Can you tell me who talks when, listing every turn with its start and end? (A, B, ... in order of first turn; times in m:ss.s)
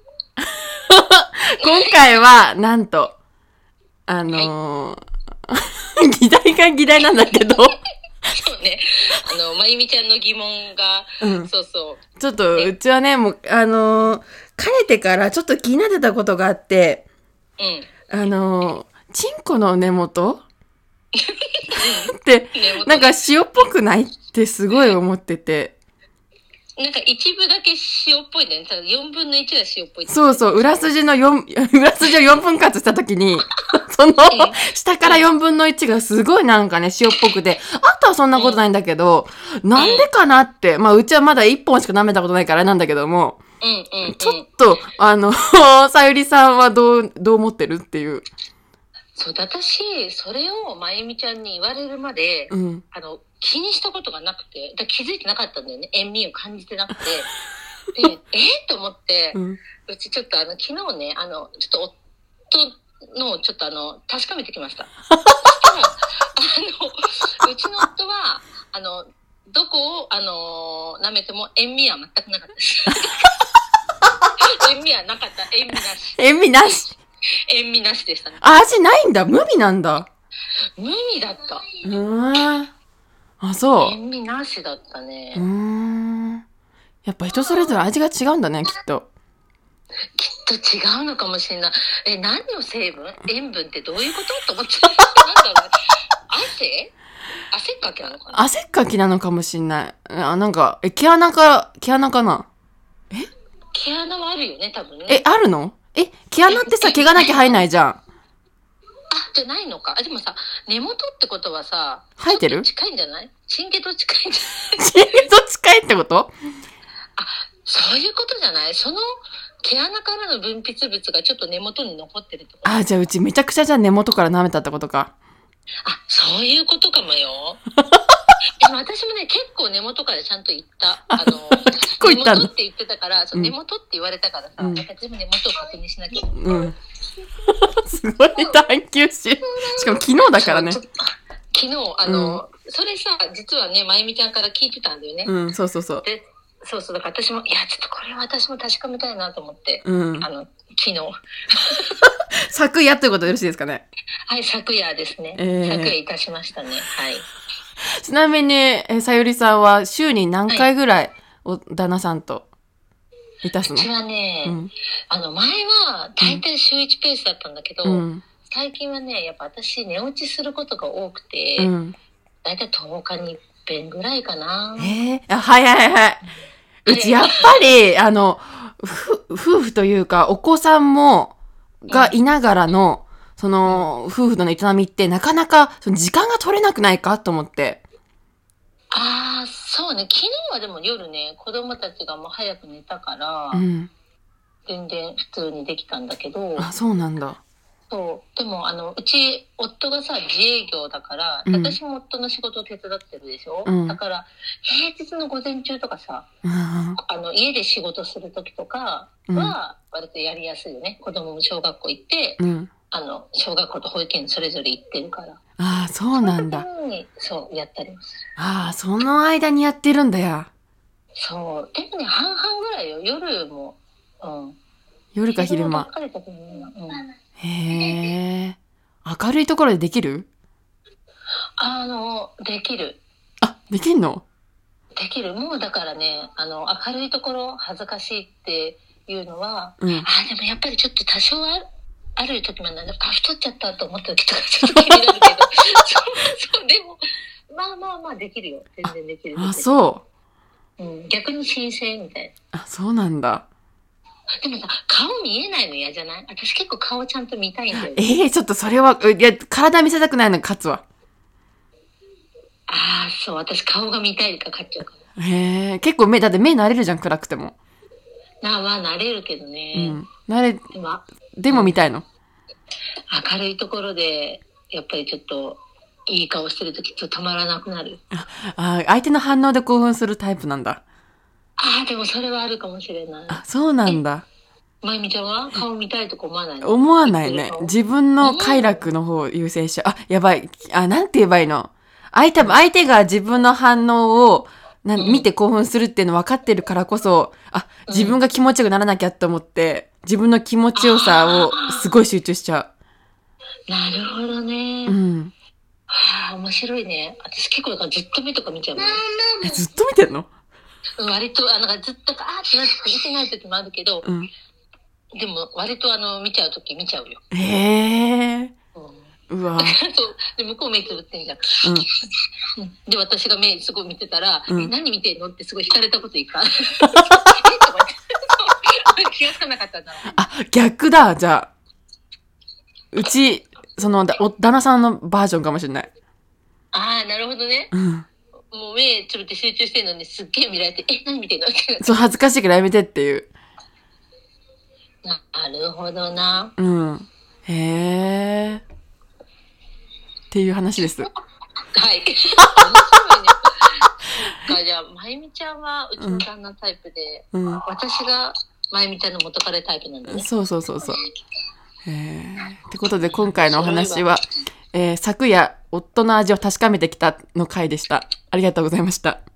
0:00.4-0:03.2 A
0:04.1-0:07.8 A
0:08.3-0:12.0 B
0:11.2-0:11.5 A
0:12.2-0:17.0 A
0:17.6-0:17.9 B
0:18.1-0:20.4 A
0:21.2-0:23.1 B
0:21.8-0:25.8 A
0:26.8-0:30.9 B
0:30.1-0:43.4 A
0:34.3-0:35.3 B
0:39.8-0:40.1 B
0:43.6-0:44.5 B
0:44.1-0:48.3 A
0:49.2-0:57.3 B
0:52.5-0:52.8 A
0:58.0-1:02.0 B
0:59.3-0:59.6 A
1:02.5-1:04.9 B
1:05.1-1:05.4 A
1:05.4-1:13.3 B
1:14.4-1:16.2 B
1:16.2-1:17.0 A
1:17.5-1:18.4 B
1:18.4-1:20.1 A
1:20.8-1:21.7 B
1:21.8-1:22.7 A
1:23.4-1:24.0 A
1:23.8-1:25.5 B
1:25.4-1:26.4 A
1:27.0-1:29.1 A
1:27.4-1:27.8 B
1:30.2-1:35.8 B
1:36.3-1:36.9 B
1:37.5-1:38.4 B
1:38.3-1:42.5 A
1:43.7-1:45.2 B
1:45.1-1:48.0 A
1:46.5-1:47.6 B
1:49.1-1:54.8 B
1:52.2-1:52.7 A
1:54.8-1:56.3 A
1:57.2-1:59.0 B
1:59.6-2:02.9 B
2:02.6-2:05.1 A
2:05.8-2:07.6 B
2:08.6-2:16.3 B
2:11.1-2:12.5 A
2:14.6-2:14.8 A
2:16.3-2:16.8 A
2:17.4-2:20.8 A
2:19.4-2:25.3 B
2:22.0-2:22.4 A
2:25.3-2:26.0 A
2:26.0-2:32.1 B
2:29.8-2:30.3 A
2:32.4-2:33.8 A
2:34.3-2:37.3 B
2:35.4-2:36.0 A
2:37.9-2:42.5 A
2:43.4-2:43.9 A
2:43.7-2:44.6 B
2:44.4-2:44.7 A
2:45.1-2:51.7 B
2:47.8-2:48.2 A
2:51.6-2:52.0 A
2:52.4-2:54.9 B
2:54.8-2:56.2 A
2:56.8-3:07.8 A
2:56.9-2:57.5 B
3:01.9-3:02.2 B
3:08.9-3:13.6 B
3:13.5-3:13.9 A
3:14.7-3:16.7 B
3:16.6-3:17.4 A
3:17.9-3:26.3 B
3:21.5-3:21.8 A
3:23.6-3:24.0 A
3:26.4-3:27.0 A
3:27.0-3:35.4 B
3:29.3-3:29.6 A
3:32.4-3:32.7 A
3:35.6-3:36.7 A
3:36.2-3:38.2 B
3:38.4-3:40.5 A
3:41.2-3:44.6 B
3:45.2-3:45.9 A
3:45.3-3:47.0 B
3:47.4-3:50.3 A
3:51.6-3:53.0 B
3:53.4-3:54.2 A
3:55.0-4:01.6 B
3:59.8-4:00.1 A
4:02.2-4:09.8 B
4:04.7-4:05.1 A
4:09.4-4:10.0 A
4:10.8-4:12.3 B
4:12.5-4:13.5 A
4:14.4-4:18.0 B
4:17.8-4:20.8 A
4:22.7-4:25.0 B
4:25.2-4:27.6 A
4:28.4-4:30.0 B
4:29.7-4:30.6 A
4:30.7-4:31.8 B
4:31.4-4:32.0 A
4:33.1-4:38.0 B
4:38.1-4:40.8 A
4:41.6-4:44.0 B
4:43.3-4:44.3 A
4:44.8-4:48.9 B
4:46.6-5:02.7 A
4:55.0-4:55.3 B
4:57.9-4:58.2 B
5:00.8-5:01.9 B
5:03.7-5:05.0 B
5:04.9-5:05.3 A
5:05.9-5:09.4 B
5:09.4-5:10.3 A
5:11.0-5:14.1 B
5:14.0-5:14.3 A
5:15.2-5:17.2 B
5:17.3-5:18.5 A
5:18.8-5:21.6 B
5:19.3-5:19.8 A
5:22.6-5:30.2 B
5:26.8-5:27.3 A
5:30.2-5:31.5 A
5:32.9-5:35.9 A
5:36.7-5:37.7 B
5:37.7-5:38.1 A
5:38.5-5:42.0 B
5:41.8-5:43.3 A
5:45.0-5:46.6 B
5:46.6-5:48.6 A
5:50.3-5:51.1 A
5:51.7-6:00.3 B
5:56.0-5:56.3 A
5:57.3-5:57.6 A
6:00.1-6:01.0 A
6:01.9-6:04.2 A
6:03.0-6:04.1 B
6:04.7-6:09.2 A